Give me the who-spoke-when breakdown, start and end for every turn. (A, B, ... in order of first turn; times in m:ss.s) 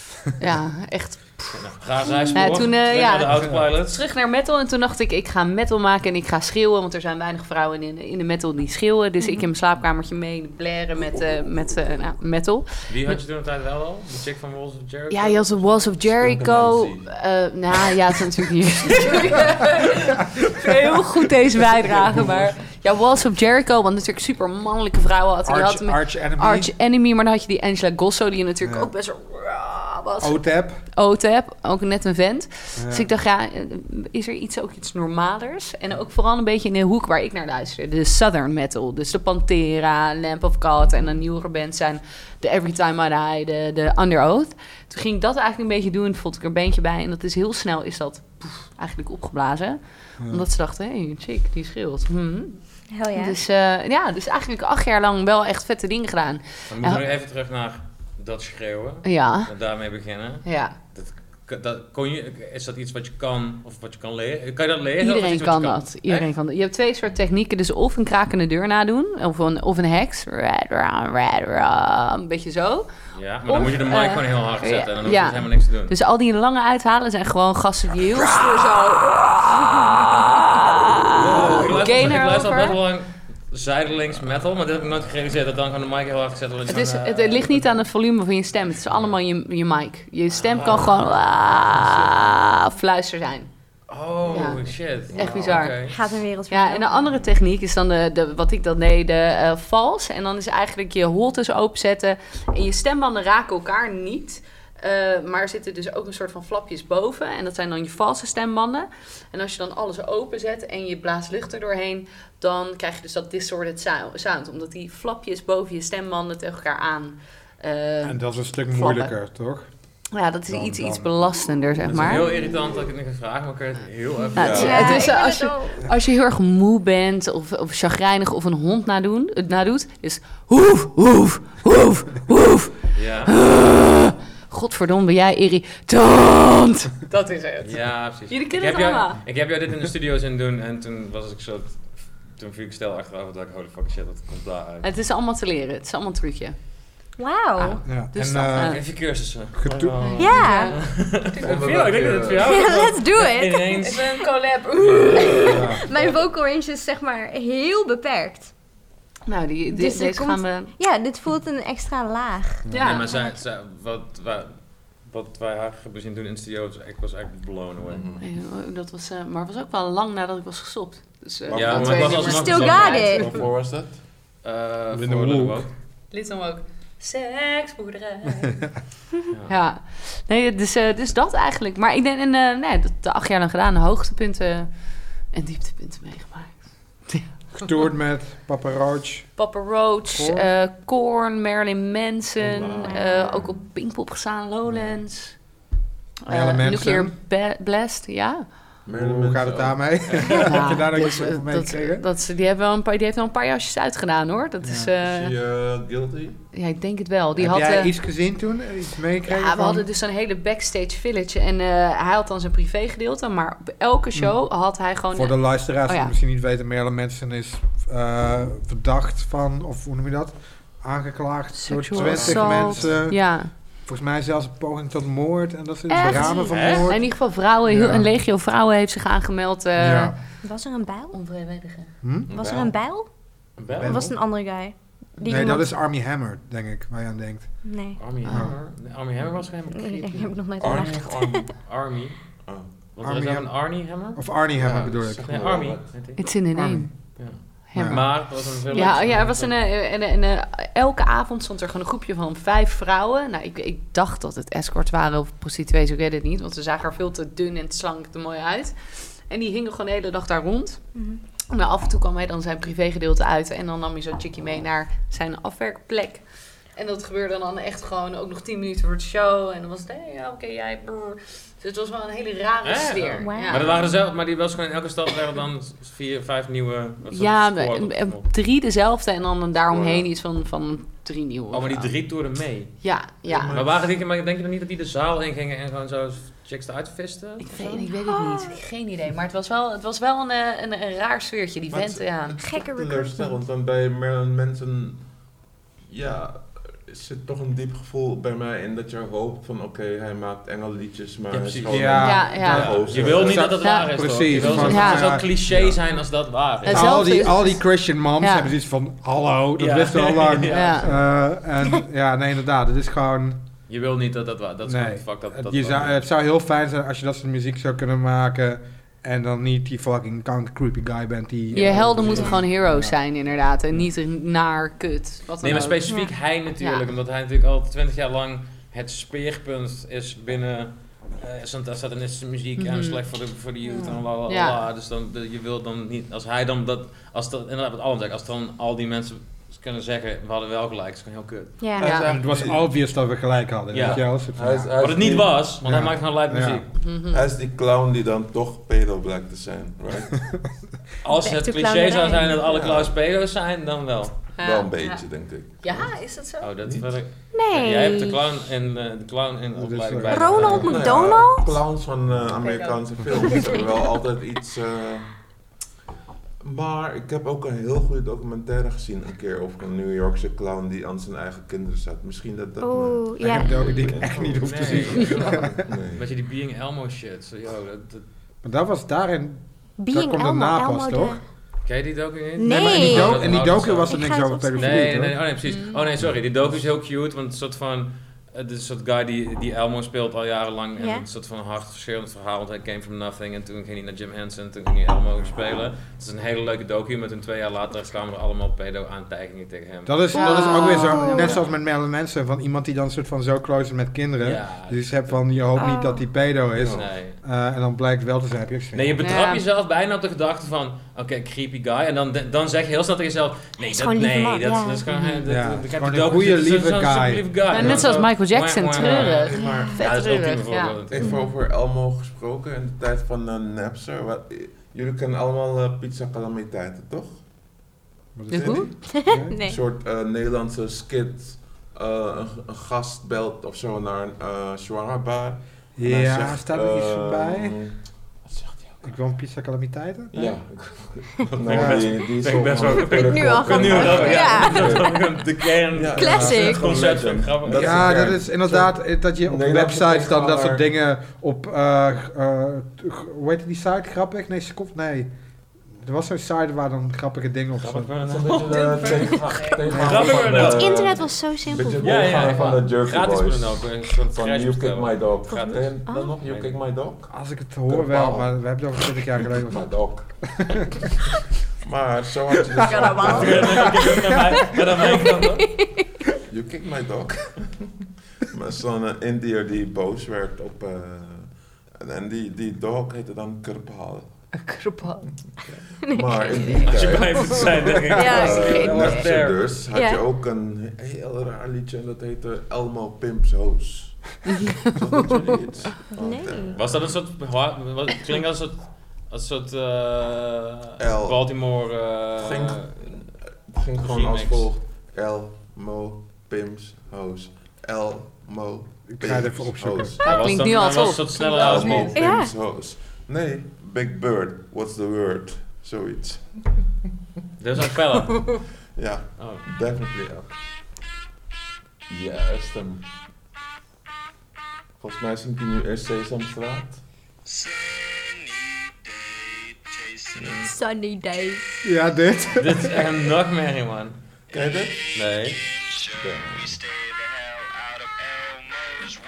0:00.4-0:01.6 A
0:01.5-0:04.0 B
0:02.3-0:13.2 A
0:12.9-0:15.9 B
0:15.1-0:30.4 A
0:16.1-0:17.1 C
0:25.5-0:26.7 D
0:28.6-0:28.9 D
0:30.2-0:30.8 D
0:31.0-0:52.6 A
0:32.8-0:33.1 D
0:50.2-0:50.4 D
0:52.9-0:53.4 E
0:53.1-0:57.0 A
0:56.7-1:06.3 B
0:59.0-0:59.5 A
1:00.4-1:00.8 A
1:05.0-1:12.9 A
1:13.1-1:15.9 B
1:13.5-1:22.8 A
1:21.2-1:27.7 B
1:21.2-1:22.1 C
1:26.7-1:33.5 A
1:30.4-1:31.2 B
1:33.9-1:36.0 B
1:34.2-1:35.7 C
1:34.3-1:35.8 A
1:35.9-1:37.1 E
1:36.5-1:59.1 A
1:58.0-1:59.7 D
2:00.1-2:02.3 A
2:00.5-2:01.1 D
2:01.8-2:02.9 C
2:01.9-2:04.9 B
2:04.4-2:19.2 A
2:04.4-2:05.0 C
2:04.5-2:05.9 E
2:12.9-2:13.3 B
2:17.6-2:24.9 B
2:24.8-2:26.6 A
2:27.2-2:27.8 E
2:27.6-2:28.8 A
2:27.8-2:28.8 D
2:28.5-2:34.3 B
2:29.6-2:30.1 D
2:30.0-2:31.8 A
2:30.2-2:30.8 E
2:31.4-2:32.6 C
2:32.4-2:33.8 E
2:33.8-2:35.8 A
2:35.5-2:38.5 E
2:35.6-2:35.9 D
2:39.3-2:40.8 A
2:39.7-2:43.3 E
2:42.7-2:43.1 A
2:42.8-2:48.0 B
2:47.8-2:48.2 C
2:48.2-2:53.4 A
2:51.5-2:54.0 C
2:51.5-2:53.5 B
2:52.3-2:53.3 E
2:54.4-2:55.7 B
2:54.9-2:55.6 D
2:56.1-2:58.7 A
2:59.5-3:04.7 A
3:05.3-3:07.2 A
3:07.6-3:09.3 D
3:09.4-3:15.4 A
3:10.1-3:10.5 D
3:12.4-3:13.6 C
3:12.8-3:13.4 E
3:16.2-3:18.5 A
3:16.3-3:17.2 D
3:18.8-3:20.4 C
3:18.9-3:22.0 D
3:20.2-3:25.3 A
3:24.6-3:24.9 D
3:25.0-3:26.4 C
3:26.5-3:28.0 A
3:27.4-3:29.9 D
3:29.2-3:36.1 A
3:35.1-3:47.1 D
3:41.5-3:43.5 A
3:41.9-3:43.1 C
3:45.9-3:50.2 A
3:46.4-3:46.9 B
3:47.6-3:48.1 D
3:49.8-3:50.2 D
3:50.4-3:51.2 E
3:51.1-3:51.9 A
3:52.0-3:52.3 D
3:52.3-3:52.7 C
3:52.3-3:53.1 E
3:53.6-3:54.0 B
3:53.7-3:54.2 D
3:53.8-3:55.7 E
3:55.3-3:57.6 D
3:55.3-3:55.6 A
3:57.6-3:58.3 E
3:58.0-4:00.8 B
3:58.2-3:58.6 D
3:59.7-4:01.4 E
4:00.6-4:01.6 C
4:01.5-4:02.2 B
4:02.4-4:02.7 C
4:02.9-4:04.3 B
4:03.0-4:05.3 D
4:04.6-4:06.0 C
4:05.2-4:06.3 B
4:06.2-4:07.1 A
4:06.5-4:06.9 D
4:07.2-4:09.5 B
4:07.7-4:20.8 A
4:07.8-4:08.1 D
4:21.0-4:21.2 E
4:21.5-4:26.2 A
4:26.8-4:33.9 A
4:32.6-4:38.2 B
4:33.2-4:33.9 E
4:37.1-4:41.9 A
4:39.7-4:40.1 C
4:41.5-4:42.8 B
4:42.8-4:43.6 A
4:43.3-4:43.9 C
4:43.5-4:47.5 B
4:47.4-4:52.4 A
4:47.6-4:48.5 E
4:51.7-4:55.1 C
4:52.4-4:53.3 E
4:55.8-5:03.6 C
5:01.3-5:07.3 B
5:01.7-5:05.3 D
5:02.0-5:05.2 A
5:04.4-5:05.8 C
5:06.6-5:07.7 A
5:06.7-5:13.4 D
5:08.2-5:08.5 A
5:09.6-5:11.0 B
5:10.5-5:10.9 A
5:13.7-5:16.0 B
5:14.6-5:23.0 D
5:21.5-5:22.4 B
5:21.6-5:25.9 A
5:22.2-5:22.4 E
5:25.4-5:41.7 B
5:26.6-5:26.8 A
5:32.6-5:33.0 A
5:33.7-5:34.0 E
5:34.3-5:34.6 A
5:41.6-5:42.0 E
5:41.8-5:42.6 C
5:41.8-5:42.1 A
5:42.0-5:44.7 D
5:43.7-5:46.7 B
5:43.8-5:45.4 C
5:45.6-5:46.6 D
5:46.8-5:47.2 A
5:47.1-5:50.2 C
5:51.0-5:54.3 B
5:51.1-5:52.4 E
5:52.4-5:53.0 C
5:54.4-5:55.1 A
5:54.4-5:56.0 C
5:55.6-5:56.5 A
5:56.4-6:01.0 B
5:57.3-5:58.2 E
5:59.6-6:01.0 D
6:00.1-6:01.6 E
6:00.5-6:05.1 C
6:02.4-6:03.5 A
6:06.4-6:16.1 C
6:12.6-6:13.8 E
6:13.2-6:15.6 D
6:13.9-6:18.0 B
6:15.0-6:15.3 A
6:18.4-6:21.2 D
6:19.8-6:21.2 E
6:21.6-6:40.2 B
6:22.4-6:25.0 E
6:22.5-6:25.2 D
6:25.4-6:25.8 A
6:30.8-6:31.0 E
6:39.9-6:49.2 D
6:40.1-6:41.3 A
6:40.1-6:41.4 E
6:44.2-6:45.2 B
6:45.6-6:46.1 E
6:46.6-6:46.9 C
6:46.6-6:47.2 B
6:48.7-7:01.2 B
6:49.0-6:49.4 A
6:53.6-6:54.8 E
6:54.9-6:55.2 A
6:55.3-6:58.0 D
6:57.5-7:00.8 A
6:58.8-6:59.4 C
6:59.4-6:59.8 E
7:00.9-7:07.2 C
7:01.0-7:01.3 E
7:08.2-7:09.3 D
7:08.3-7:08.9 A
7:08.3-7:18.9 C
7:09.0-7:09.6 E
7:15.8-7:17.6 D
7:18.8-7:20.4 D
7:20.1-7:25.0 C
7:21.3-7:28.1 B
7:21.5-7:22.0 D
7:22.8-7:25.2 E
7:25.7-7:30.7 C
7:26.0-7:26.8 E
7:26.0-7:26.4 D
7:27.5-7:35.1 D
7:35.7-7:37.9 D
7:37.6-7:41.0 B
7:38.0-7:47.1 C
7:39.7-7:40.2 D
7:40.0-7:42.2 E
7:41.8-7:46.5 B
7:45.3-7:46.1 E
7:47.1-7:50.9 D
7:47.6-7:48.4 C
7:49.4-7:50.2 C
7:51.6-7:53.7 C
7:52.6-7:55.5 E
7:52.7-7:54.8 D
7:53.0-7:55.5 B
7:56.3-8:04.3 C
8:04.3-8:05.2 A
8:05.8-8:16.9 C
8:05.9-8:06.7 E
8:06.6-8:09.5 B
8:07.9-8:08.7 E
8:08.0-8:09.1 A
8:09.7-8:10.0 E
8:14.3-8:14.7 A
8:16.0-8:16.6 E
8:16.6-8:22.7 B
8:20.8-8:21.2 C
8:22.2-8:30.0 C
8:23.8-8:24.5 B
8:28.9-8:30.0 D
8:30.0-8:32.0 B
8:30.0-8:32.0 A
8:30.1-8:30.3 E
8:31.3-8:36.7 C
8:32.0-8:32.3 E
8:37.4-8:38.5 B
8:38.1-8:38.4 A
8:38.7-8:40.3 C
8:39.2-8:39.4 B
8:41.9-8:42.9 C
8:44.8-8:46.8 C
8:50.2-8:50.5 C
8:50.2-8:50.5 B
8:50.4-8:51.6 E
8:51.6-8:52.9 D
8:52.4-8:54.0 B
8:54.3-8:55.0 C
8:54.9-8:55.4 B
8:55.8-8:56.8 C